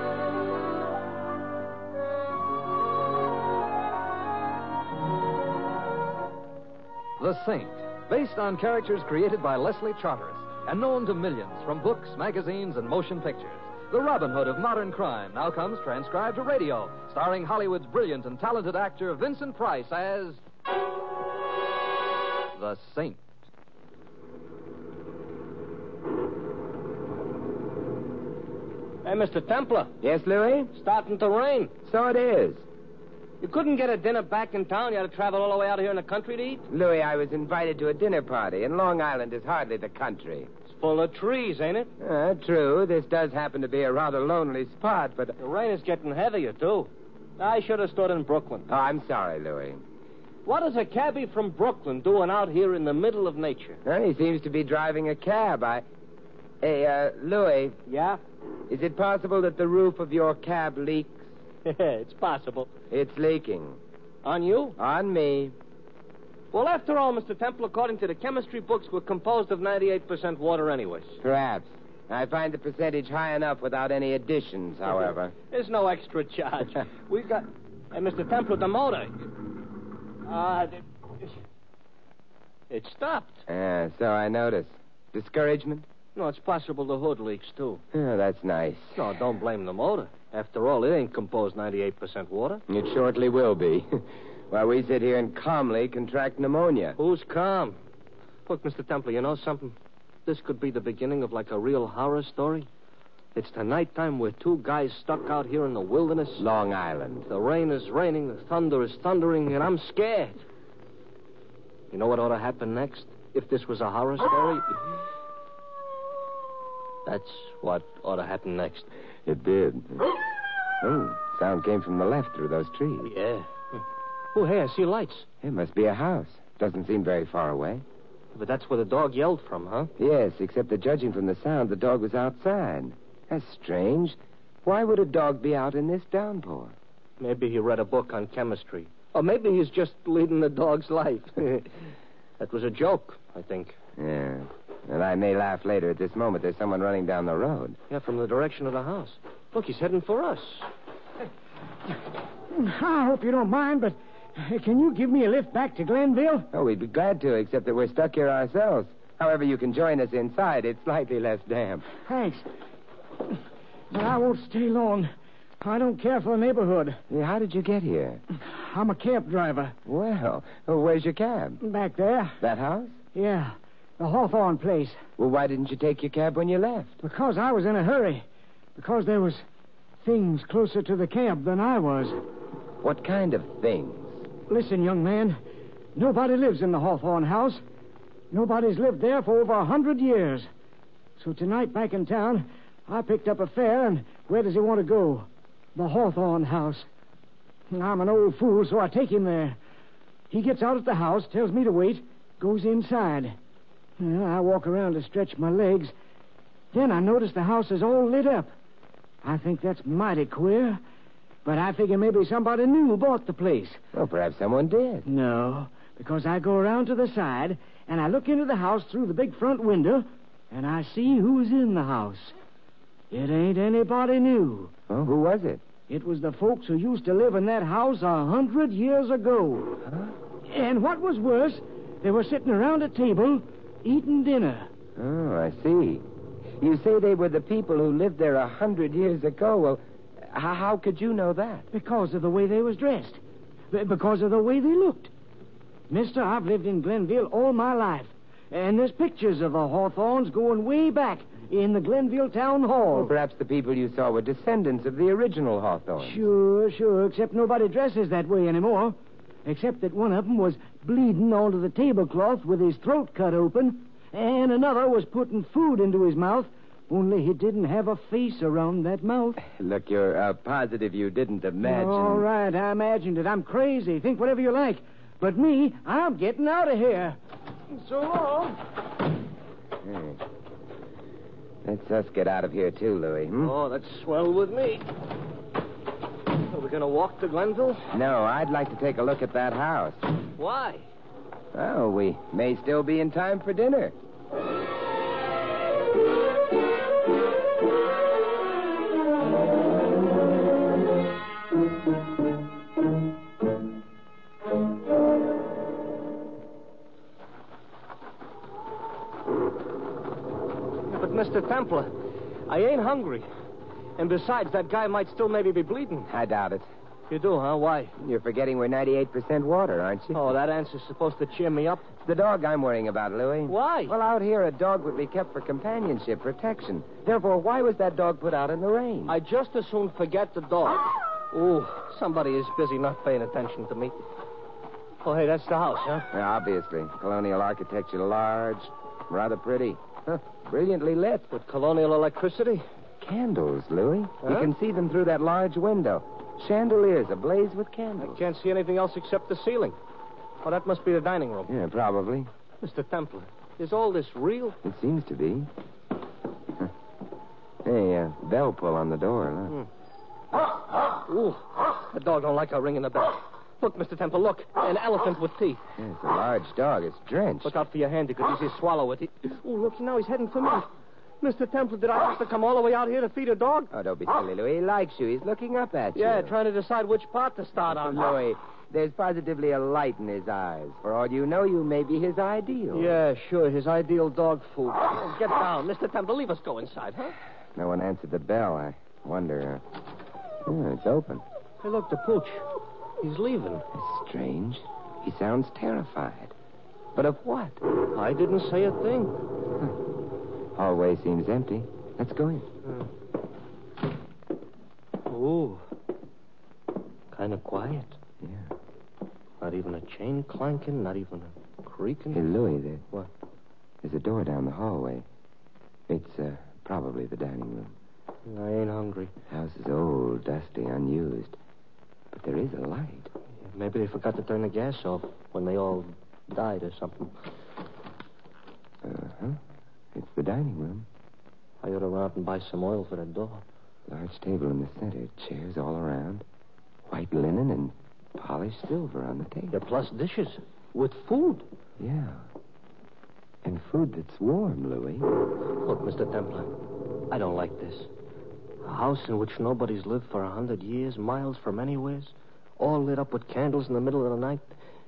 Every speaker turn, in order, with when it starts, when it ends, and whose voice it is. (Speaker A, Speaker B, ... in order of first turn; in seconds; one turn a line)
Speaker A: 7.2-20.4
Speaker A: 22.6-23.2
Speaker B: 29.0-29.9
Speaker C: 30.0-30.7
Speaker B: 30.8-31.7
Speaker C: 31.8-32.6
Speaker B: 33.4-36.7
Speaker C: 36.7-40.5
Speaker B: 40.7-41.9
Speaker C: 42.0-45.4
Speaker B: 45.4-48.7
Speaker C: 48.7-49.8
Speaker B: 50.5-53.8
Speaker C: 53.9-55.9
Speaker C: 56.6-57.8
Speaker B: 57.9-58.2
Speaker C: 58.7-61.3
Speaker B: 61.6-62.7
Speaker C: 62.9-63.8
Speaker B: 64.2-64.8
Speaker C: 64.8-65.6
Speaker B: 66.5-71.2
Speaker C: 71.2-75.3
Speaker B: 75.5-79.2
Speaker B: 80.3-81.3
Speaker B: 82.7-83.4
Speaker C: 83.5-85.9
Speaker B: 86.2-87.8
Speaker C: 87.9-89.1
Speaker B: 89.0-92.6
Speaker C: 92.7-97.0
Speaker B: 97.0-97.8
Speaker B: 98.5-102.7
Speaker B: 103.3-106.5
Speaker C: 106.4-107.3
Speaker B: 107.3-110.4
Speaker B: 111.9-114.7
Speaker B: 117.1-118.9
Speaker C: 119.2-120.1
Speaker C: 120.8-123.1
Speaker B: 123.0-123.8
Speaker B: 124.3-125.3
Speaker C: 125.4-127.8
Speaker B: 128.3-129.9
Speaker C: 130.0-136.8
Speaker B: 137.2-141.8
Speaker B: 142.4-143.8
Speaker C: 144.0-147.8
Speaker B: 147.9-150.7
Speaker D: 152.5-156.5
Speaker C: 156.5-161.9
Speaker D: 162.1-162.5
Speaker D: 163.9-167.0
Speaker C: 167.1-168.2
Speaker D: 168.3-169.8
Speaker C: 169.9-171.6
Speaker D: 171.6-172.4
Speaker C: 172.4-173.0
Speaker D: 173.1-175.0
Speaker C: 175.2-177.0
Speaker D: 177.0-178.2
Speaker D: 178.8-179.4
Speaker D: 180.0-182.2
Speaker C: 182.8-184.3
Speaker D: 184.5-185.4
Speaker D: 185.9-187.6
Speaker D: 188.3-190.5
Speaker D: 191.2-196.9
Speaker D: 197.7-199.6
Speaker D: 200.3-203.4
Speaker D: 204.0-205.9
Speaker D: 206.7-208.5
Speaker D: 209.2-210.8
Speaker D: 211.4-213.8
Speaker C: 213.9-215.1
Speaker D: 215.1-222.4
Speaker D: 223.1-224.7
Speaker C: 224.9-225.6
Speaker D: 225.9-229.8
Speaker C: 229.8-230.2
Speaker D: 230.4-234.7
Speaker C: 235.0-236.1
Speaker C: 236.6-241.7
Speaker D: 241.7-243.2
Speaker D: 243.7-245.1
Speaker D: 245.9-253.1
Speaker C: 252.9-256.3
Speaker D: 256.0-269.4
Speaker C: 269.4-272.3
Speaker D: 271.6-277.2
Speaker D: 277.7-278.6
Speaker C: 279.8-280.2
Speaker C: 281.6-283.6
Speaker B: 283.4-284.9
Speaker B: 286.4-287.9
Speaker C: 287.9-290.1
Speaker B: 290.4-290.9
Speaker C: 291.5-293.9
Speaker B: 310.9-311.9
Speaker B: 312.5-313.3
Speaker B: 314.0-316.1
Speaker C: 316.1-316.7
Speaker B: 317.1-317.9
Speaker C: 318.0-320.2
Speaker B: 320.1-321.9
Speaker C: 322.1-329.2
Speaker B: 323.5-324.0
Speaker B: 329.1-333.9
Speaker B: 335.0-336.1
Speaker C: 336.1-341.3
Speaker B: 341.3-342.6
Speaker C: 343.0-348.2
Speaker B: 344.2-344.5
Speaker B: 348.0-349.8
Speaker B: 350.4-351.5
Speaker C: 351.5-352.3
Speaker B: 352.6-354.6
Speaker C: 354.6-355.5
Speaker C: 357.6-359.6
Speaker B: 361.1-365.6
Speaker C: 365.8-367.5
Speaker B: 367.4-370.7
Speaker B: 371.2-373.7
Speaker C: 373.7-376.3
Speaker B: 375.9-378.1
Speaker C: 377.7-382.9
Speaker B: 382.7-387.2
Speaker C: 387.6-389.6
Speaker C: 390.4-391.2
Speaker B: 391.6-392.5
Speaker B: 393.0-393.7
Speaker C: 393.7-396.3
Speaker C: 396.9-397.6
Speaker B: 397.9-399.2
Speaker C: 400.6-402.5
Speaker B: 405.1-405.6
Speaker B: 407.1-408.0
Speaker C: 408.2-408.5
Speaker B: 409.4-412.3
Speaker C: 412.1-412.8
Speaker C: 413.8-415.1
Speaker C: 415.9-417.8
Speaker B: 418.3-419.1
Speaker C: 419.3-421.4
Speaker C: 422.1-423.1
Speaker B: 423.4-427.1
Speaker C: 428.8-429.4
Speaker C: 429.9-430.9
Speaker B: 431.6-433.4
Speaker C: 433.9-436.3
Speaker C: 436.9-439.6
Speaker B: 439.5-441.5
Speaker C: 441.8-442.3
Speaker C: 443.4-445.1
Speaker B: 445.6-446.5
Speaker B: 447.1-447.9
Speaker B: 448.6-454.5